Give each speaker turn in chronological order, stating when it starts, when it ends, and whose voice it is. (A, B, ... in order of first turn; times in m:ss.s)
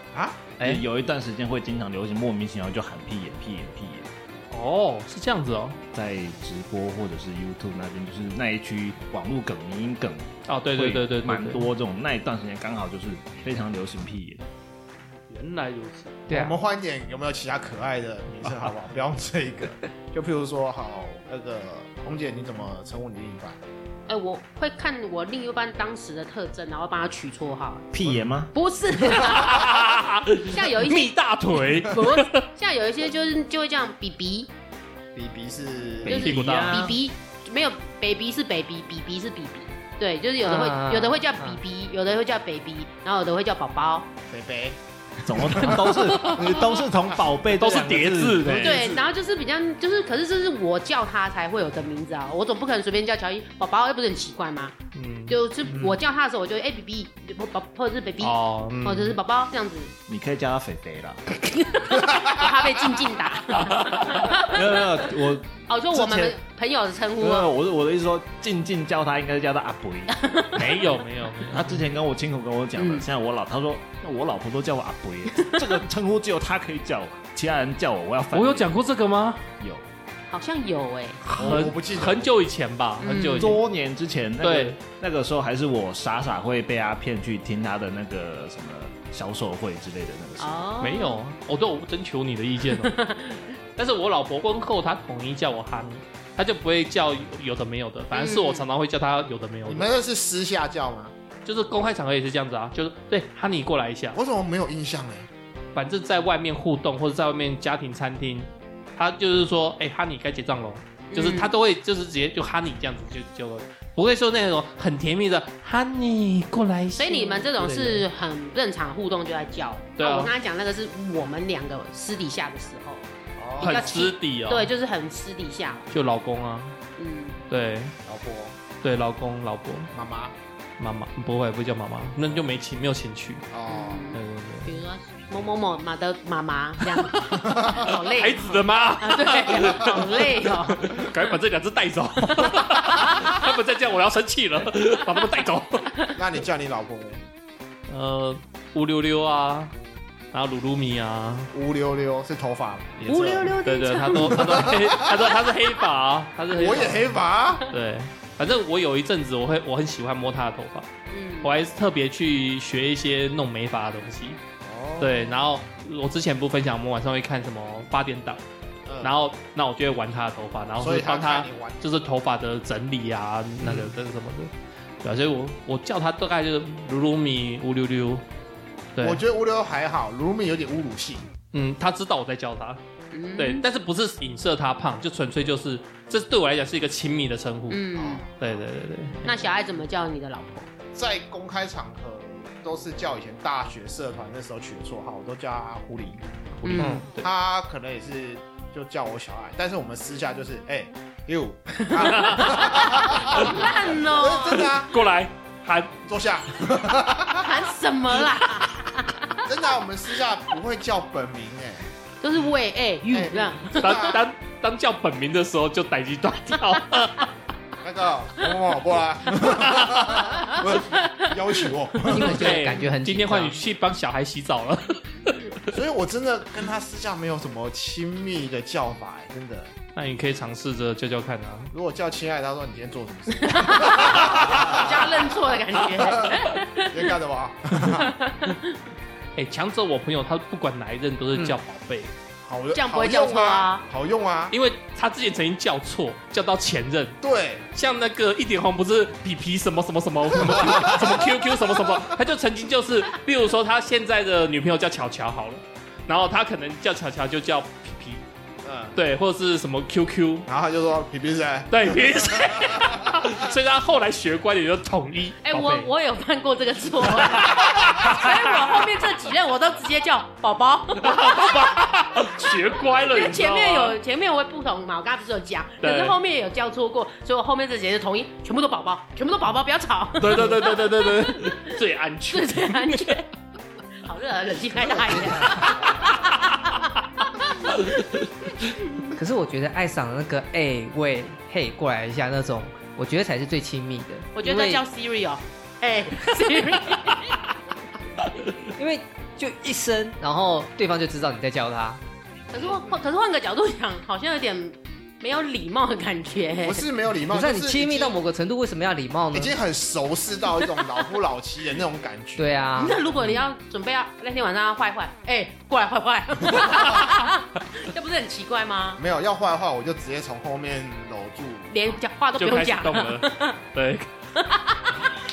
0:00.1-0:00.5 A
0:00.6-0:04.1 B
0:04.5-0:05.8 C
0:05.9-0:14.4 B
0:10.5-0:11.7 C
0:15.3-0:16.2 C
0:16.3-0:16.6 D
0:16.3-0:23.6 A
0:24.1-0:28.0 E
0:27.9-0:28.5 B
0:28.5-0:29.8 E
0:29.2-0:32.4 C
0:30.4-0:31.2 E
0:31.8-0:34.5 E
0:35.1-0:36.3 A
0:36.1-0:37.0 B
0:36.1-0:44.1 E
0:36.1-0:36.8 C
0:40.4-0:41.6 D
0:44.3-0:45.9 A
0:45.2-0:48.9 B
0:47.6-0:48.9 C
0:48.5-0:49.0 A
0:48.6-0:54.8 E
0:54.9-0:55.4 C
0:55.3-0:59.9 E
0:58.2-0:59.2 C
1:00.1-1:01.2 B
1:01.4-1:04.8 E
1:03.8-1:06.4 B
1:05.7-1:07.5 E
1:07.2-1:10.2 B
1:10.1-1:10.8 E
1:10.6-1:11.7 C
1:11.4-1:18.7 B
1:12.8-1:13.1 E
1:15.3-1:15.6 E
1:18.3-1:19.5 C
1:19.6-1:19.8 B
1:20.3-1:21.2 E
1:21.2-1:23.6 C
1:21.4-1:21.7 B
1:21.4-1:22.3 A
1:23.0-1:23.6 E
1:23.4-1:30.5 B
1:24.4-1:24.8 C
1:30.4-1:31.2 E
1:30.8-1:33.0 C
1:32.8-1:33.5 E
1:33.8-1:39.9 C
1:38.1-1:38.7 E
1:39.6-1:41.1 A
1:41.4-1:44.2 C
1:44.2-1:45.3 A
1:45.7-1:58.1 C
1:51.1-1:51.5 E
1:57.0-2:03.1 E
2:00.0-2:00.3 C
2:03.4-2:03.9 A
2:03.6-2:05.9 E
2:03.6-2:04.7 C
2:05.9-2:06.8 C
2:07.0-2:07.4 E
2:07.5-2:07.9 C
2:08.0-2:08.6 A
2:08.8-2:09.9 C
2:09.9-2:10.4 A
2:10.8-2:13.5 C
2:12.2-2:12.5 A
2:13.5-2:14.2 A
2:13.7-2:20.9 E
2:14.2-2:14.7 C
2:17.1-2:25.9 C
2:17.4-2:17.7 A
2:22.3-2:23.1 E
2:26.2-2:27.2 A
2:27.9-2:29.7 C
2:30.3-2:31.5 C
2:31.5-2:33.6 A
2:33.0-2:34.7 E
2:33.6-2:37.2 C
2:34.3-2:35.2 A
2:36.5-2:37.6 A
2:37.7-2:40.9 C
2:41.1-2:41.5 E
2:41.4-2:44.4 C
2:44.6-2:45.4 A
2:45.0-2:48.4 C
2:48.9-2:49.2 A
2:49.0-2:54.5 C
2:50.8-2:51.8 A
2:53.6-2:53.9 D
2:55.0-2:58.2 C
2:59.0-2:59.2 C
2:59.0-3:01.3 A
3:01.5-3:02.8 C
3:03.1-3:03.6 E
3:03.4-3:09.5 C
3:07.7-3:08.2 E
3:08.0-3:08.6 A
3:09.2-3:10.7 E
3:10.9-3:16.2 A
3:16.6-3:17.3 C
3:16.6-3:17.0 E
3:16.8-3:17.1 D
3:17.2-3:24.9 A
3:21.9-3:24.7 E
3:22.0-3:22.6 C
3:23.3-3:23.7 C
3:24.6-3:25.9 C
3:26.0-3:27.6 A
3:27.4-3:29.3 E
3:29.4-3:31.9 A
3:32.2-3:34.2 E
3:33.1-3:34.2 A
3:33.8-3:37.3 C
3:37.8-3:42.6 A
3:40.2-3:41.3 E
3:42.1-3:43.6 D
3:42.1-3:45.6 C
3:45.7-3:49.7 A
3:50.0-3:51.7 C
3:51.7-3:55.4 A
3:53.3-3:57.0 E
3:56.0-3:58.1 A
3:57.9-3:58.7 E
3:59.4-4:02.1 C
4:02.4-4:04.6 A
4:02.7-4:03.8 E
4:04.5-4:07.2 C
4:07.2-4:07.7 A
4:07.7-4:18.2 C
4:10.4-4:12.2 A
4:18.6-4:19.0 A
4:19.0-4:20.5 C
4:20.5-4:23.4 A
4:21.7-4:25.9 C
4:25.4-4:31.8 E
4:27.1-4:28.8 C
4:31.0-4:34.0 C
4:32.4-4:41.7 E
4:35.8-4:36.2 C
4:40.2-4:43.2 C
4:42.3-4:43.3 E
4:44.0-4:48.8 E
4:44.8-4:46.1 A
4:49.1-4:54.8 D
4:54.4-4:57.4 E
4:58.6-5:02.0 D
5:02.5-5:06.8 E
5:02.5-5:03.0 A
5:06.6-5:08.2 A
5:07.3-5:09.6 D
5:09.3-5:12.5 A
5:12.4-5:13.0 D
5:12.8-5:19.0 E
5:19.0-5:22.0 A
5:21.7-5:23.6 E
5:22.4-5:24.1 C
5:24.4-5:25.1 E